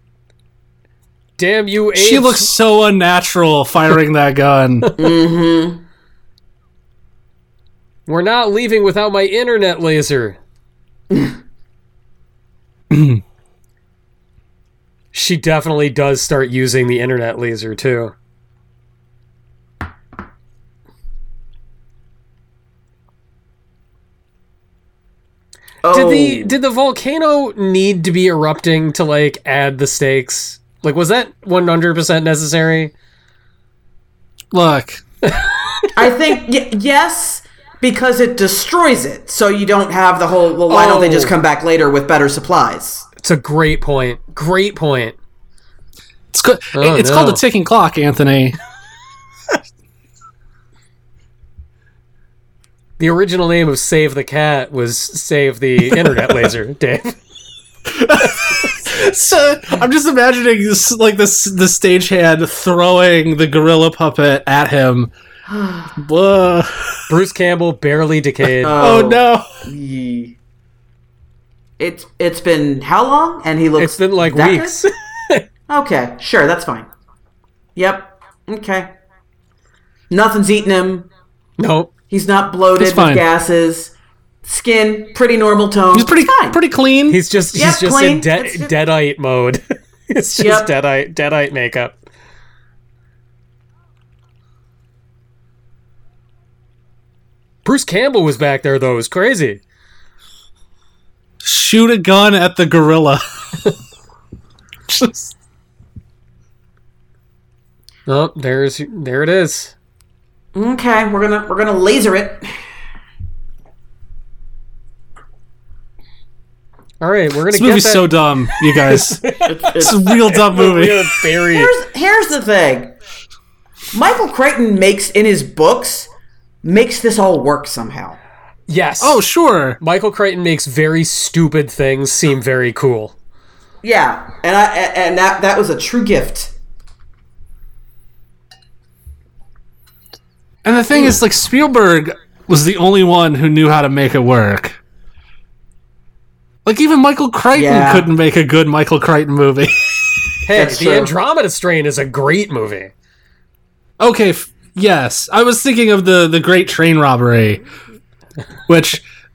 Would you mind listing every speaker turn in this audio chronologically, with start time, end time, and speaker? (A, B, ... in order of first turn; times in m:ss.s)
0:01.4-0:02.5 A
0:01.9-0:04.9 B
0:05.0-0:05.8 C
0:08.1-0:10.4 A
0:12.9-0:13.2 B
0:15.1-0:18.1 A
0:25.8-0:26.5 C
0:25.9-0:32.9 A
0:34.5-0:35.0 B
0:35.3-0:35.8 A
0:35.9-0:43.1 C
0:40.7-0:41.3 A
0:43.2-0:45.2 A
0:46.3-0:48.6 B
0:46.7-0:47.4 A
0:53.0-0:57.2 A
0:57.9-1:05.1 B
0:58.2-0:58.7 A
1:05.5-1:05.9 C
1:05.9-1:07.0 B
1:07.1-1:08.8 A
1:08.6-1:10.4 C
1:08.7-1:09.4 B
1:11.8-1:14.8 C
1:13.8-1:15.4 A
1:15.7-1:16.9 C
1:17.8-1:18.9 C
1:20.1-1:21.1 C
1:21.6-1:21.9 A
1:22.1-1:23.9 C
1:22.8-1:23.2 B
1:24.4-1:26.6 C
1:25.9-1:27.2 B
1:27.1-1:32.0 A
1:27.5-1:28.7 C
1:30.4-1:30.7 C
1:37.6-1:39.6 A
1:41.4-1:43.7 B
1:44.9-1:45.3 B
1:48.1-1:49.7 A
1:50.5-1:52.6 C
1:57.0-2:01.7 A
1:57.5-1:59.2 B
1:59.4-2:00.2 C
1:59.8-2:01.0 B
2:01.5-2:02.9 C
2:03.9-2:06.1 C
2:06.6-2:08.2 C
2:08.7-2:09.2 A
2:09.0-2:09.8 B
2:09.8-2:13.1 A
2:13.8-2:16.5 C
2:20.6-2:24.8 B
2:26.6-2:30.4 B
2:27.5-2:28.1 C
2:30.4-2:32.9 A
2:30.5-2:31.1 C
2:34.0-2:37.6 B
2:38.7-2:39.0 B